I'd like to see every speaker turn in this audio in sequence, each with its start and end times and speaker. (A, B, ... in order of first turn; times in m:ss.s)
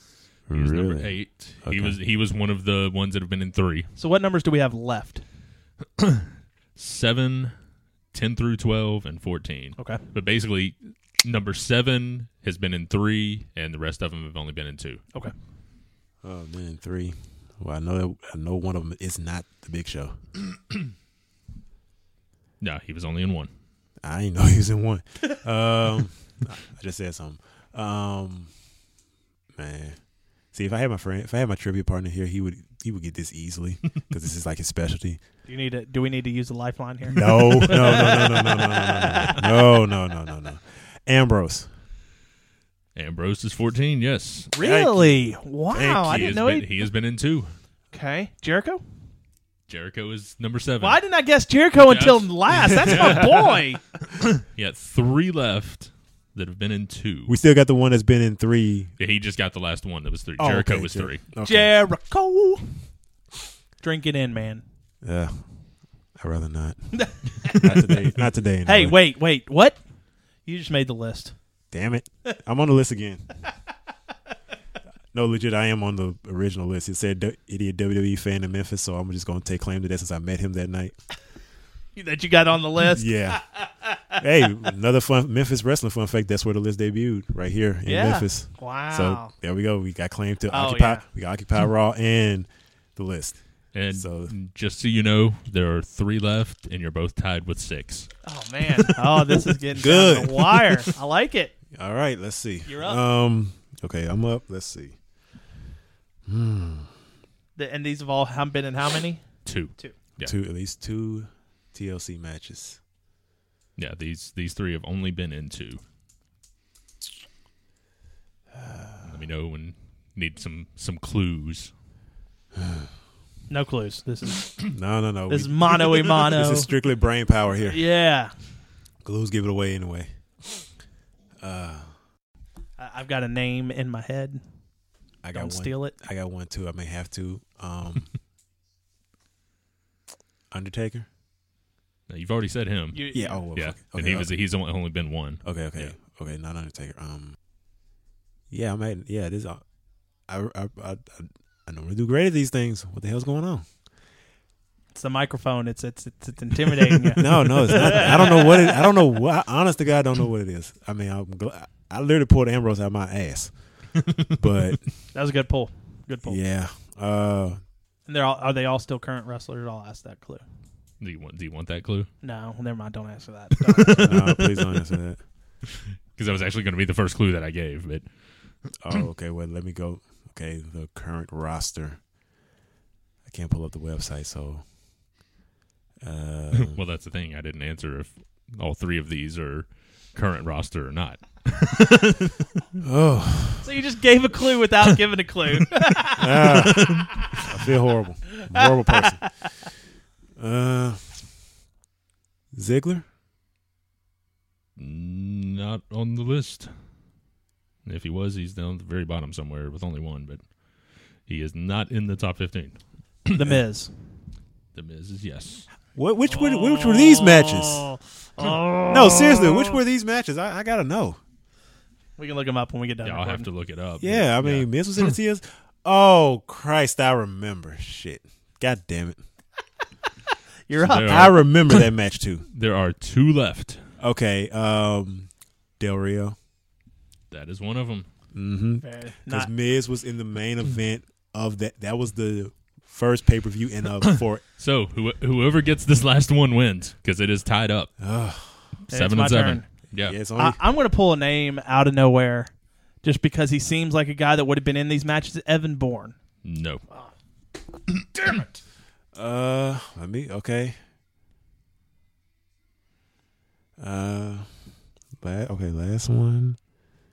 0:00.5-0:02.0 A
0:00.5-0:03.9 B
0:04.0-0:05.2 C
0:06.0-0:07.5 B
0:08.1-0:15.0 B
0:16.2-0:20.2 A
0:22.6-0:23.5 B
0:24.0-0:28.5 A
0:29.6-0:30.0 A
0:30.5-0:35.2 A
0:35.5-0:39.4 C
0:37.1-0:41.7 A
0:37.8-0:38.1 B
0:43.0-0:44.5 B
0:44.5-0:46.8 C
0:44.6-0:45.2 A
0:45.7-0:46.3 A
0:46.0-0:47.5 B
0:47.9-0:48.8 C
0:49.7-0:51.0 B
0:50.8-0:53.8 C
0:51.8-0:53.4 B
0:52.5-0:53.2 A
0:54.1-0:57.4 B
0:57.3-0:58.9 A
0:59.0-1:01.2 B
1:00.4-1:01.7 A
1:01.4-1:02.8 C
1:03.8-1:04.6 C
1:05.0-1:05.4 A
1:06.2-1:09.0 A
1:06.9-1:07.8 C
1:08.6-1:09.8 C
1:10.4-1:11.3 C
1:11.7-1:13.3 A
1:15.1-1:21.0 A
1:22.0-1:24.2 C
1:22.8-1:23.4 A
1:24.2-1:33.4 A
1:27.9-1:29.3 C
1:30.5-1:31.0 C
1:33.7-1:38.1 B
1:33.9-1:34.3 A
1:38.2-1:41.5 C
1:39.7-1:40.9 A
1:41.7-1:45.0 A
1:42.7-1:43.0 C
1:46.3-1:46.9 A
1:47.6-1:49.2 C
1:49.5-1:50.3 B
1:50.2-1:52.8 A
1:53.8-1:55.8 B
1:58.5-1:59.1 A
1:59.0-2:01.7 B
2:02.5-2:02.9 A
2:03.5-2:04.6 C
2:04.7-2:07.8 A
2:05.3-2:06.7 C
2:07.6-2:08.3 C
2:09.0-2:10.1 A
2:11.4-2:11.9 A
2:12.8-2:14.4 C
2:15.2-2:18.1 A
2:15.3-2:16.0 C
2:20.5-2:21.1 A
2:22.1-2:23.0 B
2:22.9-2:23.4 C
2:23.1-2:24.3 A
2:23.6-2:25.9 B
2:25.4-2:27.4 A
2:28.5-2:29.6 A
2:30.3-2:33.6 A
2:34.9-2:38.9 C
2:37.2-2:43.6 A
2:44.4-2:44.9 A
2:45.1-2:46.4 C
2:46.2-2:47.6 A
2:48.1-2:50.4 C
2:51.0-2:52.1 B
2:52.2-2:54.2 C
2:53.7-2:54.4 B
2:54.0-2:55.2 A
2:56.1-2:58.1 B
2:58.8-3:02.0 A
3:03.2-3:04.6 A
3:06.0-3:06.8 A
3:06.5-3:12.4 B
3:12.8-3:13.7 A
3:13.6-3:17.3 C
3:16.2-3:19.2 A
3:16.6-3:17.2 B
3:18.4-3:19.5 C
3:20.4-3:21.2 A
3:22.5-3:23.0 A
3:24.8-3:26.7 B
3:27.8-3:30.4 B
3:31.3-3:32.8 B
3:33.3-3:33.9 C
3:34.7-3:35.7 B
3:36.0-3:37.9 A
3:36.3-3:39.8 C
3:38.9-3:41.2 A
3:42.2-3:43.5 C
3:43.0-3:45.1 B
3:44.0-3:49.2 A
3:50.7-3:51.4 C
3:50.8-3:51.9 B
3:51.1-3:52.5 A
3:52.5-3:53.8 B
3:54.0-3:56.4 A
3:57.3-3:58.1 B
3:58.3-4:04.4 A
3:58.8-3:59.5 C
4:04.6-4:07.9 B
4:08.0-4:08.7 A
4:08.9-4:09.7 C
4:08.9-4:10.2 B
4:10.0-4:10.6 A
4:10.4-4:12.5 C
4:13.0-4:16.2 C
4:16.4-4:16.8 B
4:18.2-4:18.6 C
4:19.1-4:20.8 A
4:23.8-4:24.5 A
4:25.2-4:26.6 A